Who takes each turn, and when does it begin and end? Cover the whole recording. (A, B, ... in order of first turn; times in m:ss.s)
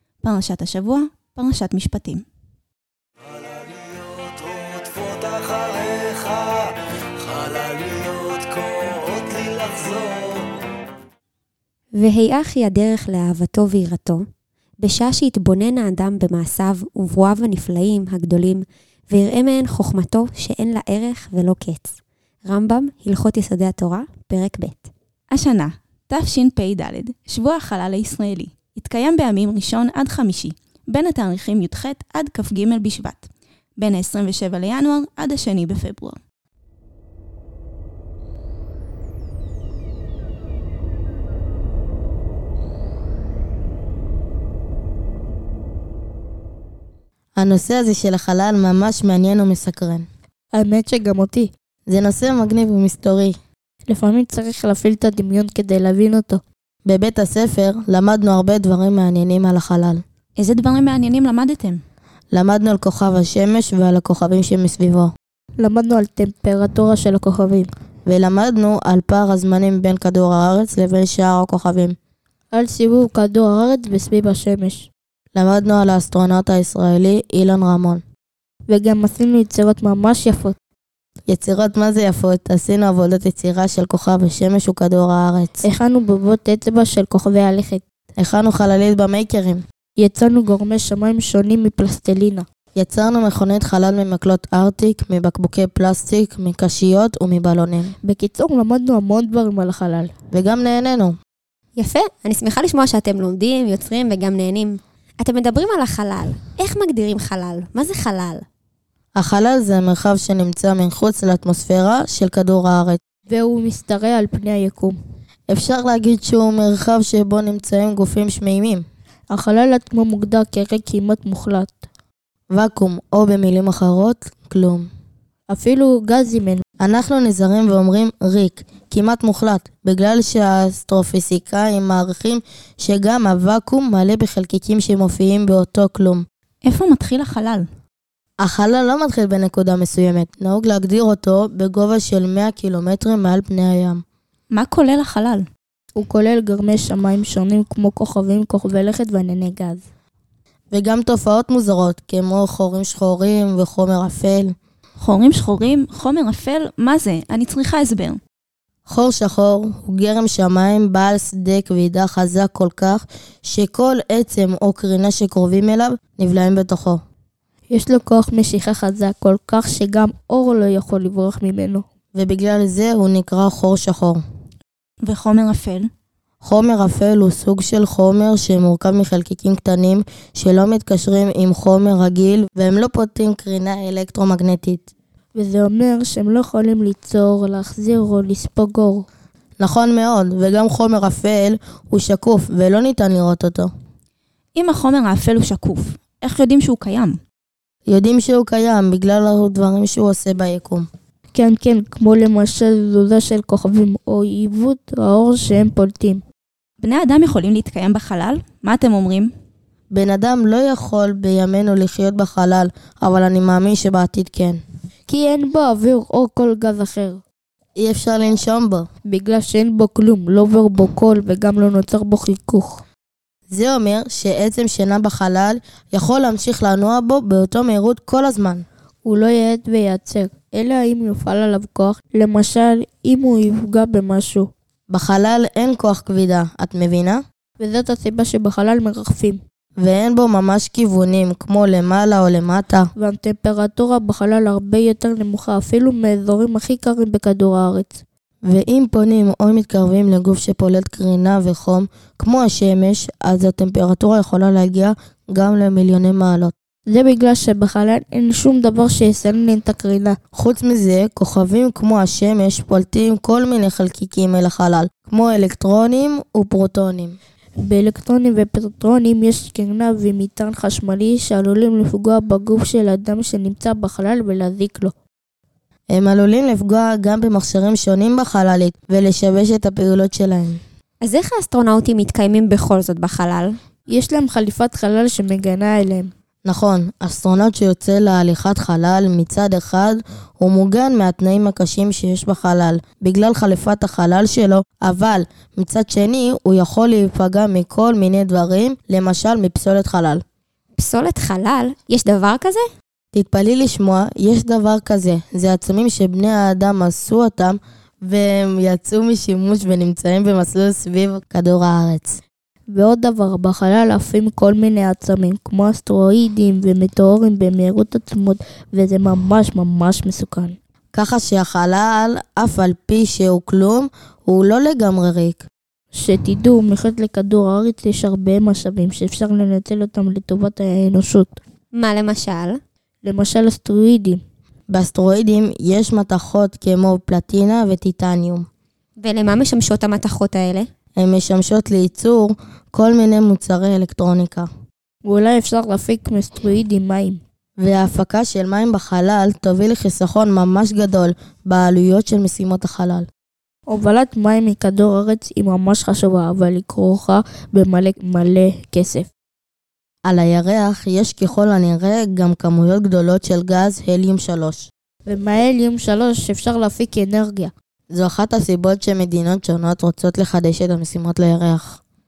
0:00.2-0:02.2 A
0:03.3-0:10.4 B
0:12.0-0:14.2 C
0:14.8-0:21.9 C
0:22.4-0:24.9 C
0:25.3-0:36.2 A
0:47.4-0:50.0 D
0:50.5-0:51.5 E
0:51.9-0:53.4 D
0:53.8-0:56.4 E
0:56.8-1:00.0 D
1:00.4-1:01.8 A
1:02.3-1:05.1 D
1:05.6-1:07.7 E
1:08.0-1:12.0 D
1:12.5-1:14.9 E
1:15.3-1:18.0 D
1:18.7-1:20.6 E
1:21.3-1:25.6 D
1:25.6-1:27.8 E
1:28.2-1:29.6 D
1:30.0-1:32.5 E
1:32.7-1:37.9 D
1:38.0-1:40.1 E
1:40.3-1:41.2 D
1:41.8-1:48.4 C
1:49.2-1:53.0 D
1:53.3-1:55.0 E
1:55.5-1:58.8 D
1:59.3-2:01.8 E
2:02.5-2:04.9 D
2:05.5-2:06.6 E
2:06.8-2:16.2 D
2:16.6-2:17.6 A
2:18.4-2:24.0 D
2:24.5-2:25.4 A
2:26.0-2:29.8 E
2:30.7-2:34.5 D
2:35.0-2:38.2 A
2:38.9-2:47.0 D
2:47.7-2:51.8 E
2:52.1-2:54.2 D
2:55.0-2:55.9 A
2:56.4-3:04.9 D
3:05.3-3:09.0 E
3:09.6-3:13.7 D
3:14.5-3:17.2 A
3:17.9-3:20.9 D
3:21.3-3:26.2 E
3:26.8-3:29.3 A
3:29.9-3:34.6 D
3:35.1-3:37.2 E
3:37.8-3:38.9 D
3:39.0-3:42.8 E
3:43.5-3:48.6 D
3:49.0-3:54.5 E
3:54.9-3:57.2 D
3:57.6-3:59.4 E
3:59.8-4:02.9 D
4:03.0-4:08.0 E
4:08.4-4:16.5 D
4:16.9-4:20.2 E
4:20.3-4:27.2 D
4:27.6-4:34.9 E
4:35.9-4:40.6 D
4:41.0-4:43.6 C
4:43.9-4:46.1 E
4:46.4-5:00.2 D
5:00.8-5:02.6 C
5:03.1-5:12.2 D
5:12.7-5:20.6 E
5:20.9-5:25.5 D
5:25.9-5:31.4 E
5:31.7-5:32.6 C
5:33.0-5:34.2 E
5:34.7-5:38.4 D
5:39.0-5:40.7 C
5:41.0-5:44.5 D
5:45.0-5:47.2 E
5:47.6-5:53.1 D
5:53.7-5:59.1 E
6:00.1-6:04.7 D
6:05.0-6:07.5 E
6:07.9-6:11.8 D